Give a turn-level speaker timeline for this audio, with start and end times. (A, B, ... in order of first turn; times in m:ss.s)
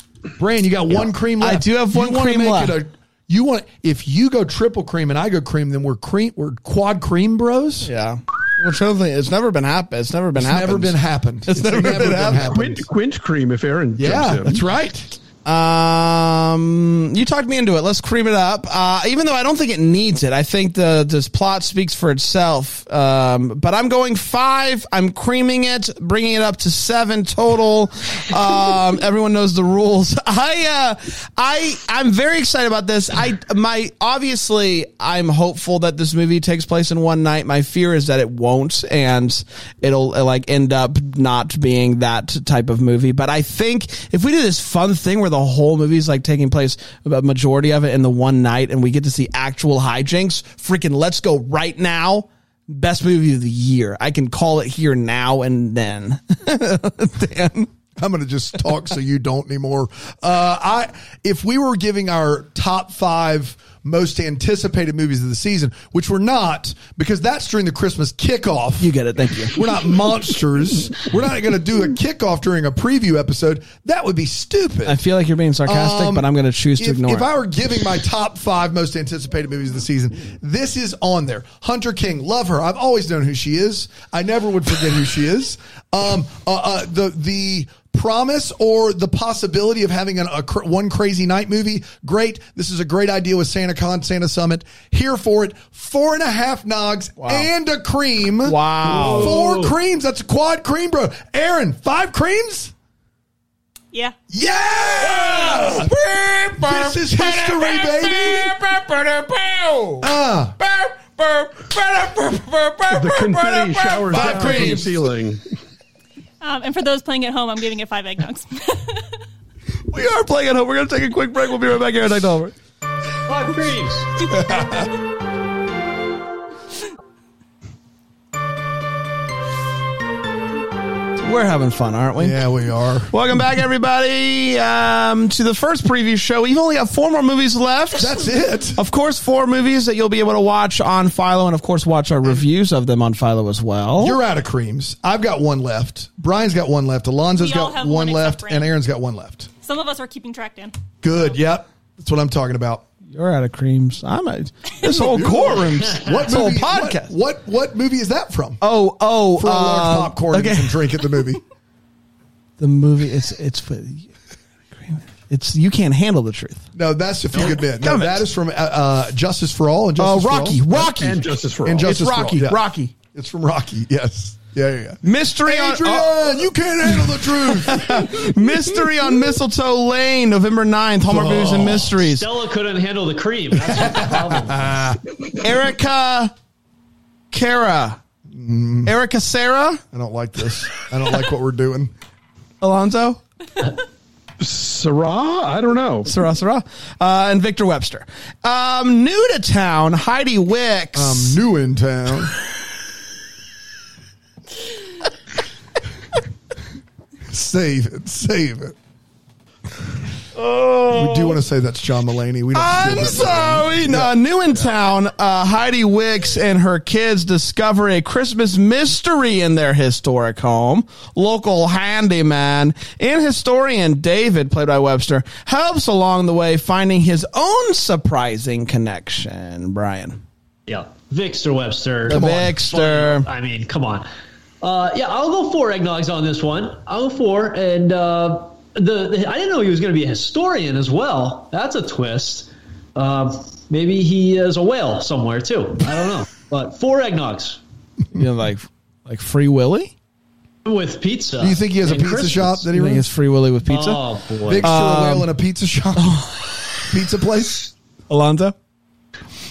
0:00.4-0:07.9 A
0:00.9-0:02.8 B
0:07.8-0:12.6 B
0:10.4-0:12.8 A
0:12.4-0:14.6 C
0:14.0-0:15.1 A
0:15.4-0:57.7 B
0:58.0-1:08.9 A
1:08.8-1:09.6 B
1:09.4-1:15.0 A
1:14.8-1:17.3 B
1:15.6-1:42.7 A
1:37.2-1:37.5 B
1:38.4-1:39.4 B
1:38.9-1:39.7 D
1:44.3-1:45.9 A
1:45.0-1:50.1 B
1:46.6-1:48.5 A
1:50.0-1:50.6 A
1:50.6-1:54.9 B
1:52.9-1:55.4 C
1:54.1-1:55.0 A
1:56.4-1:59.0 E
1:59.9-2:02.5 B
2:03.3-2:04.1 D
2:04.2-2:04.9 A
2:11.2-2:12.5 B
2:12.2-2:13.1 A
2:13.1-2:24.2 B
2:18.0-2:18.8 A
2:24.0-2:29.5 A
2:27.4-2:28.7 E
2:29.6-2:30.7 E
2:31.0-2:32.8 A
2:33.1-2:37.1 B
2:34.8-2:38.6 A
2:38.6-2:40.9 B
2:39.4-2:41.4 A
2:42.6-2:44.1 B
2:44.7-2:46.7 B
2:46.7-2:50.9 A
2:47.4-2:48.2 B
2:50.0-2:51.3 B
2:51.0-2:52.0 C
2:51.6-2:58.3 A
2:51.8-2:52.9 B
2:55.0-2:56.4 B
2:57.2-3:02.3 B
3:01.1-3:01.9 A
3:01.9-3:04.8 D
3:03.6-3:05.0 A
3:05.4-3:06.3 B
3:07.3-3:08.0 B
3:08.3-3:08.9 A
3:08.8-3:09.8 B
3:09.9-3:11.9 A
3:12.6-3:13.2 B
3:14.4-3:16.1 C
3:16.0-3:21.4 B
3:20.9-3:22.3 A
3:27.3-3:28.7 A
3:30.4-3:31.3 B
3:30.9-3:34.7 A
3:32.5-3:50.2 B
3:50.7-3:54.1 D
3:52.1-3:53.3 B
3:52.1-3:52.6 A
3:54.6-4:07.6 D
4:08.1-4:09.9 B
4:10.6-4:12.6 D
4:11.4-4:13.1 A
4:12.7-4:14.0 B
4:13.6-4:14.7 D
4:14.4-4:16.3 A
4:14.6-4:15.3 B
4:16.0-4:16.9 B
4:16.8-4:17.7 A
4:18.1-4:18.5 B